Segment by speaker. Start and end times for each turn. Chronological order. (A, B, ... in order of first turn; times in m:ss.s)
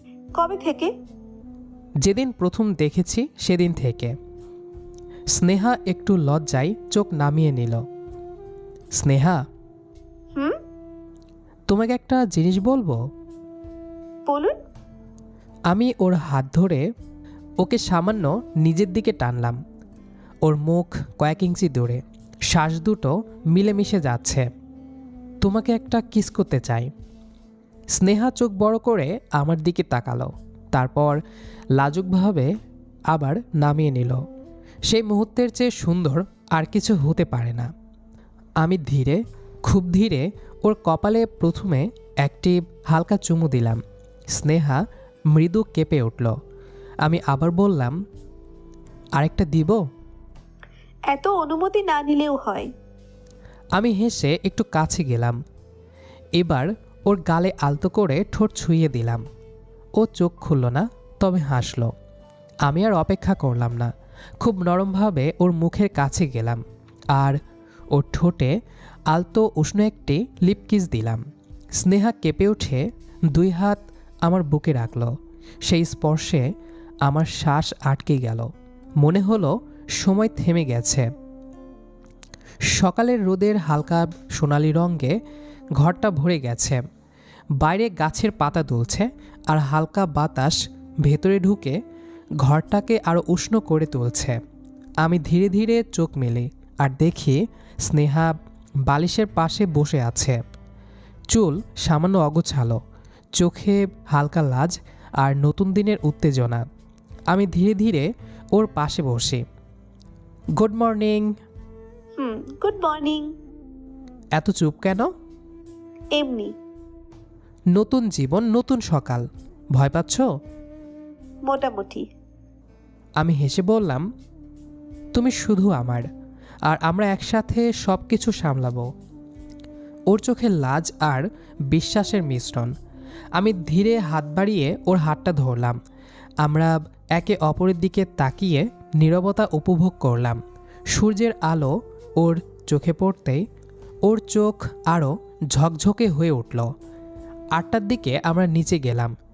0:00.4-0:00.9 A
0:02.0-0:04.1 B
0:05.3-0:07.8 B
0:09.0-0:09.4 B
0:11.7-0:13.0 B
0:14.3-0:14.5 A
0:15.7-0:16.8 B
0:17.6-0:19.6 B
0:20.4-0:24.5 B
0:25.4-0:26.9 B
0:28.0-0:31.2 B
0:31.8-0:32.5 B
0:33.1-0:34.2 B
0:34.9-0:37.7 B
0:38.6-0:43.8 B
0:44.3-0:46.3 B
0:47.0-0:48.0 B
0:49.2-0:49.8 B
0:51.1-0:52.7 A
0:53.8-0:55.4 B
0:56.4-0:59.2 B
1:00.0-1:01.9 B
1:02.6-1:03.9 B
1:04.4-1:06.6 B
1:07.1-1:07.4 B
1:07.9-1:08.6 B
1:09.1-1:11.2 B
1:11.8-1:15.1 B
1:15.6-1:16.5 B
1:17.0-1:21.1 B
1:22.7-1:25.2 B
1:25.8-1:26.8 B
1:27.6-1:31.8 B
1:32.4-1:34.4 B
1:35.0-1:38.3 B
1:38.9-1:40.4 B
1:41.3-1:42.8 B
1:43.4-1:46.6 B
1:47.3-1:49.4 B
1:50.6-1:51.3 B
1:52.2-1:53.3 A
1:54.4-1:55.1 B
1:56.2-1:56.5 A
1:57.7-2:00.3 B
2:01.5-2:02.0 A
2:03.2-2:04.1 B
2:05.1-2:06.1 B
2:06.7-2:08.9 B
2:10.1-2:12.7 B
2:13.4-2:15.8 B
2:16.4-2:20.4 B
2:20.9-2:23.4 B
2:24.0-2:26.7 B
2:27.5-2:29.1 B